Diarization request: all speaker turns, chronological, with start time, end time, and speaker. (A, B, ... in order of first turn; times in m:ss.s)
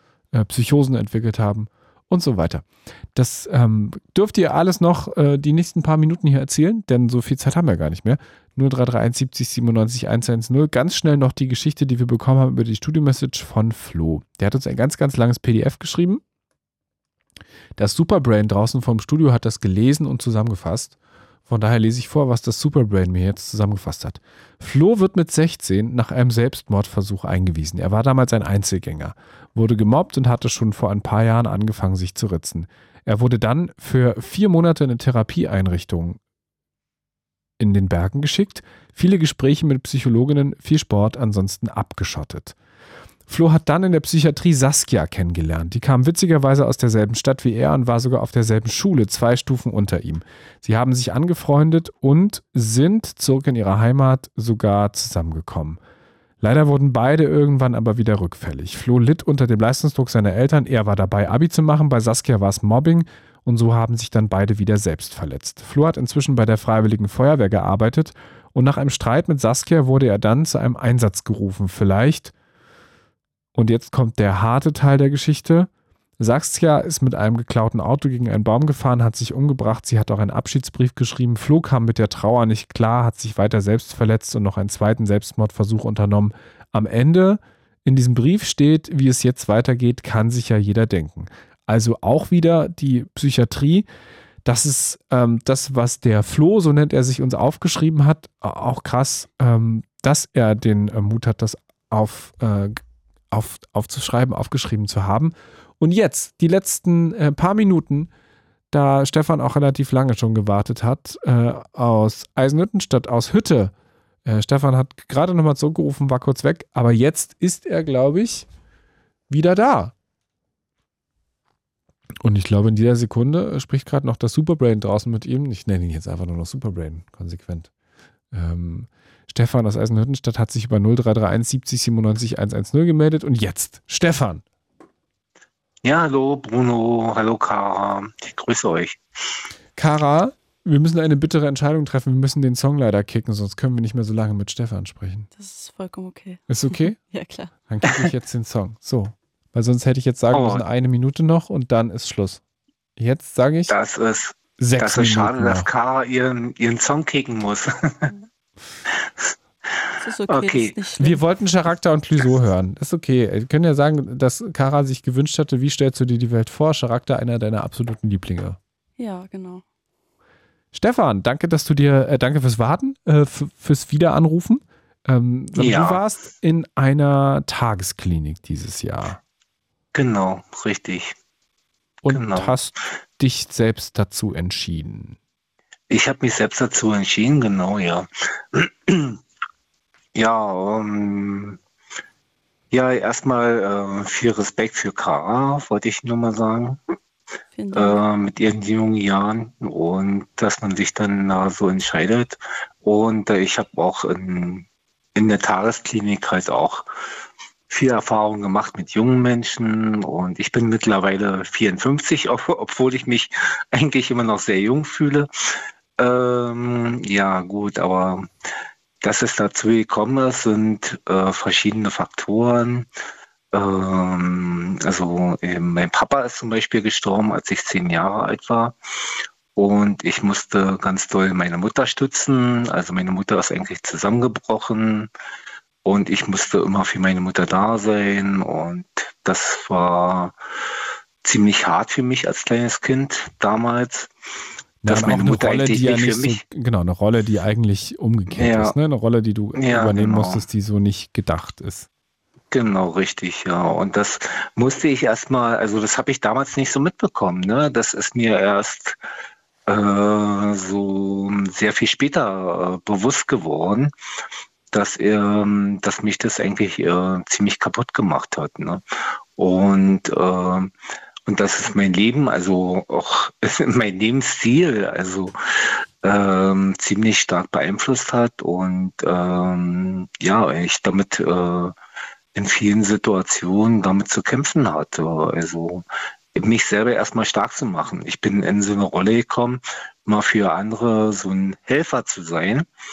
0:00.3-0:16.2 A
0:17.8-0:21.0 A
0:21.5-0:36.2 A
0:37.6-0:42.5 A
0:43.3-0:55.8 A
0:56.4-1:12.3 A
1:13.5-1:33.9 A
1:34.4-1:48.1 A
1:48.7-1:53.7 A
1:54.2-1:58.5 A
1:59.3-1:59.9 A
2:02.2-2:07.7 A
2:08.3-2:14.4 A
2:15.8-2:19.0 B
2:19.8-2:25.3 A
2:25.3-2:27.5 C
2:26.5-2:27.0 A
2:27.7-2:32.4 A
2:30.3-2:30.6 B
2:33.0-2:33.7 A
2:33.7-2:38.1 B
2:34.6-2:35.7 A
2:40.0-2:41.2 C
2:40.3-2:40.8 B
2:41.0-2:48.6 A
2:49.0-2:49.6 C
2:50.7-2:59.2 A
2:55.6-2:56.0 B
2:59.9-3:01.1 B
3:02.0-3:05.2 A
3:02.1-3:02.6 B
3:05.9-3:09.2 B
3:10.1-3:11.6 B
3:12.7-3:16.8 B
3:17.5-3:18.0 C
3:17.7-3:26.9 B
3:27.7-3:35.3 B
3:36.0-3:38.3 B
3:39.0-3:42.9 B
3:43.5-3:48.8 B
3:49.5-3:55.1 B
3:55.8-4:00.4 B
4:01.2-4:04.1 B
4:04.8-4:11.9 A
4:04.8-4:06.4 B
4:08.3-4:08.7 B
4:09.5-4:10.4 B
4:12.5-4:19.0 B
4:19.7-4:23.9 B
4:24.7-4:28.8 B
4:29.4-4:30.7 B
4:31.3-4:41.7 B
4:42.3-4:52.7 B